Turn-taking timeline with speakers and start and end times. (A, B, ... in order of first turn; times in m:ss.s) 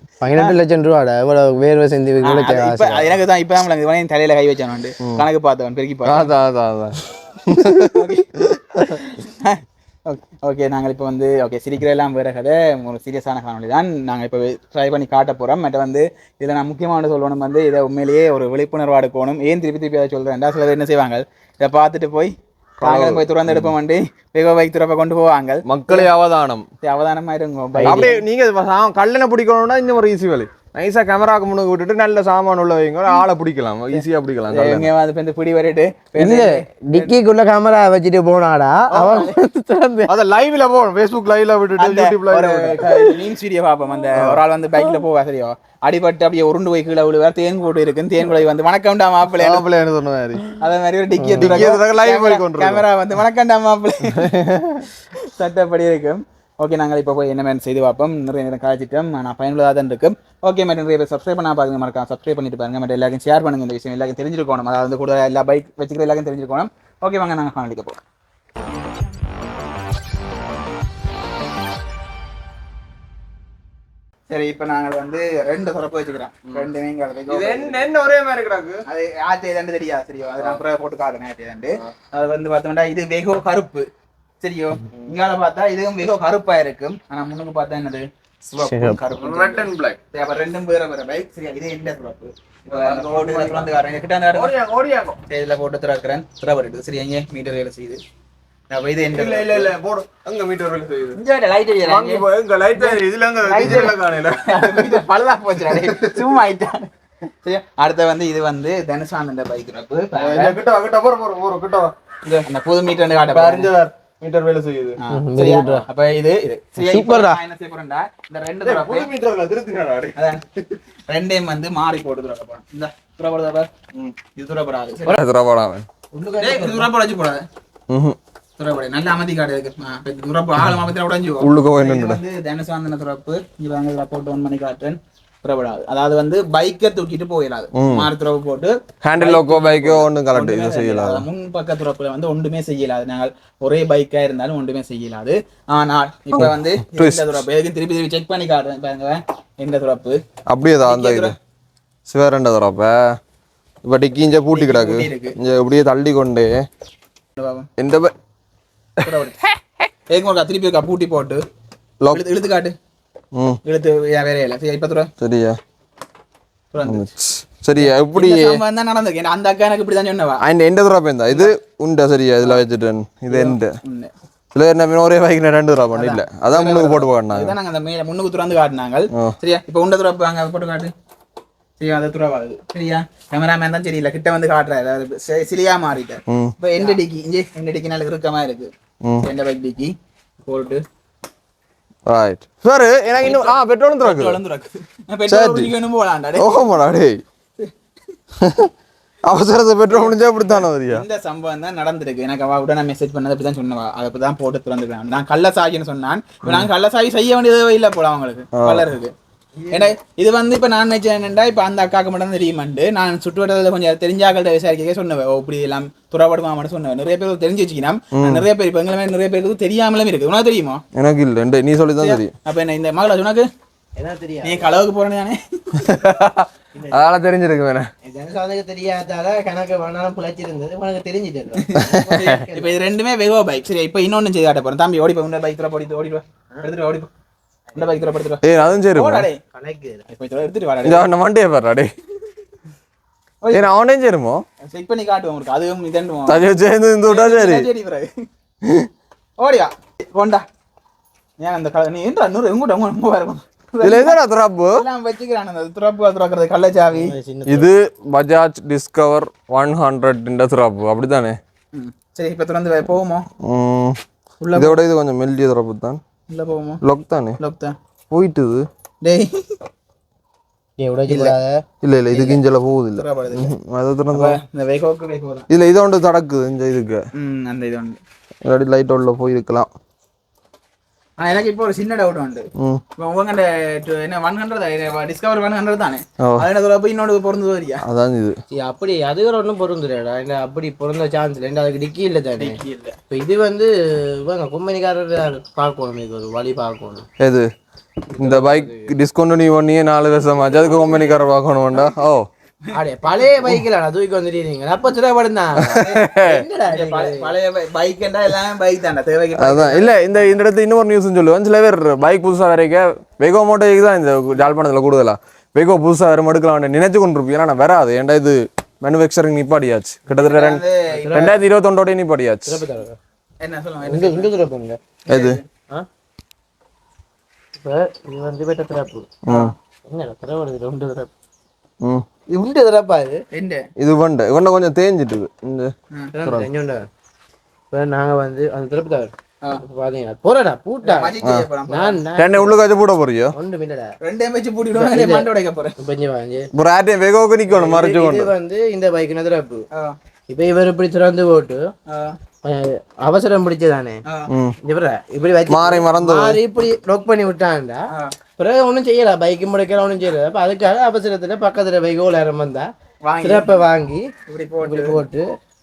0:00.2-0:03.1 A
0:02.2-0:06.3 B
0:06.0-0:08.0 C
0:07.9-0:26.1 B
0:22.8-0:23.7 C
0:25.6-0:26.6 C
0:26.8-0:28.2 B
0:27.8-0:28.1 A
0:27.8-0:34.9 C
0:34.5-0:37.1 B
0:36.2-0:40.1 A
0:38.9-0:39.4 B
0:40.1-0:43.0 C
0:41.8-0:49.6 B
0:49.4-0:50.4 C
0:50.6-0:54.3 B
0:51.2-0:51.6 A
0:51.4-0:52.8 C
0:54.1-0:54.8 C
0:55.4-1:08.0 B
1:14.3-1:17.9 B
1:17.3-1:18.8 C
1:18.9-1:23.8 B
1:24.4-1:34.5 B
1:28.6-1:29.0 A
1:29.1-1:30.0 C
1:32.7-1:33.7 C
1:34.3-1:35.2 C
1:35.3-1:38.0 B
1:38.7-1:39.7 B
1:39.1-1:41.2 C
1:41.1-1:42.2 B
1:41.8-1:45.0 C
1:42.8-1:46.9 B
1:45.7-1:46.2 C
1:47.4-1:50.6 B
1:50.1-1:52.3 C
1:52.2-1:53.7 B
1:53.2-1:55.0 C
1:55.0-1:59.1 B
1:55.1-1:55.8 A
1:56.8-1:57.4 A
1:58.6-2:00.2 C
2:00.2-2:00.4 B
2:01.1-2:03.7 B
2:04.3-2:05.2 B
2:05.1-2:05.8 C
2:06.1-2:06.9 A
2:06.4-2:07.4 B
2:07.9-2:08.2 C
2:08.6-2:30.2 B
2:11.4-2:12.2 C
2:17.7-2:18.1 C
2:19.0-2:21.2 C
2:26.3-2:27.2 C
2:30.5-2:31.3 C
2:30.8-2:31.3 B
2:32.1-2:33.1 C
2:33.8-2:36.6 C
2:34.5-2:35.4 B
2:37.4-2:37.7 B
2:37.8-2:38.1 C
2:39.0-2:39.4 B
2:40.1-2:41.4 B
2:42.1-2:42.7 B
2:43.3-2:43.6 C
2:43.6-2:45.1 B
2:45.2-2:45.6 C
2:46.7-2:47.0 B
2:46.8-2:48.6 C
2:47.8-2:50.4 B
2:50.4-2:53.7 C
2:53.3-2:54.1 B
2:54.5-2:57.5 C
2:55.9-3:00.9 B
3:01.8-3:08.7 B
3:06.3-3:06.5 C
3:09.2-3:09.9 B
3:10.4-3:10.8 B
3:12.1-3:14.4 C
3:13.2-3:16.6 B
3:15.3-3:15.7 C
3:16.4-3:17.2 C
3:18.4-3:18.7 C
3:19.3-3:21.0 C
3:20.9-3:29.1 B
3:26.4-3:26.7 C
3:28.6-3:28.8 C
3:29.7-3:40.8 B
3:38.1-3:38.5 C
3:40.9-3:42.3 C
3:42.0-3:43.4 B
3:44.0-3:44.8 A
3:44.4-3:46.0 B
3:45.8-3:47.9 C
3:48.0-3:52.7 A
3:51.6-3:57.1 B
3:51.9-3:52.3 C
3:57.7-3:59.4 B
3:58.4-3:59.3 C
3:59.5-4:00.0 A
4:00.1-4:01.1 B
4:00.8-4:01.9 C
4:03.4-4:03.7 B
4:03.5-4:04.4 C
4:04.7-4:06.5 B
4:06.3-4:07.7 C
4:07.1-4:08.1 B
4:08.6-4:08.9 C
4:09.4-4:10.4 B
4:11.4-4:14.2 B
4:13.8-4:14.8 C
4:14.8-4:17.2 B
4:16.9-4:17.7 A
4:17.4-4:21.4 C
4:21.7-4:23.3 B
4:23.4-4:24.0 C
4:24.4-4:24.8 B
4:24.5-4:26.0 C
4:26.3-4:26.8 B
4:26.8-4:27.4 C
4:27.4-4:27.7 B
4:28.1-4:28.6 C
4:29.0-4:29.5 B
4:30.8-4:31.6 A
4:31.1-4:34.4 C
4:33.0-4:33.5 B
4:34.1-4:35.5 B
4:35.5-4:37.0 C
4:37.2-4:38.0 B
4:38.4-4:39.7 C
4:41.2-4:47.8 B
4:47.8-4:48.3 C
4:48.6-4:52.6 A
4:52.4-4:53.0 B
4:53.1-4:57.0 A
4:57.2-4:57.5 C
4:58.2-5:02.2 C
4:58.2-4:58.8 A
5:02.7-5:07.3 A
5:03.0-5:03.3 B
5:05.6-5:06.4 C
5:05.7-5:06.0 B
5:06.7-5:09.9 B
5:09.4-5:22.6 C
5:20.2-5:21.4 B
5:20.9-5:21.4 A
5:22.5-5:23.0 A
5:23.4-5:24.3 B
5:23.8-5:24.8 A
5:25.1-5:25.4 C
5:25.1-5:25.4 B
5:27.6-5:29.1 A
5:29.2-5:29.5 C
5:29.3-5:29.5 B
5:29.9-5:31.1 A
5:32.3-5:33.2 A
5:33.3-5:33.6 B
5:33.8-5:36.5 C
5:36.2-5:36.8 A
5:37.7-5:41.1 A
5:40.8-5:42.0 B
5:41.2-5:41.5 C
5:41.7-5:42.6 A
5:42.2-5:43.3 C
5:43.3-5:43.9 A
5:44.0-5:45.8 B
5:44.7-5:45.3 A
5:45.8-5:46.5 A
5:46.5-5:48.3 C
5:47.5-5:49.6 A
5:50.3-5:51.6 A
5:51.9-5:52.1 B
5:52.4-5:54.0 A
5:54.3-5:54.6 C
5:54.6-5:57.8 A
5:55.5-5:56.4 C
5:58.4-6:02.7 A
6:03.0-6:03.6 B
6:03.2-6:04.0 A
6:04.3-6:05.0 B
6:04.6-6:05.2 A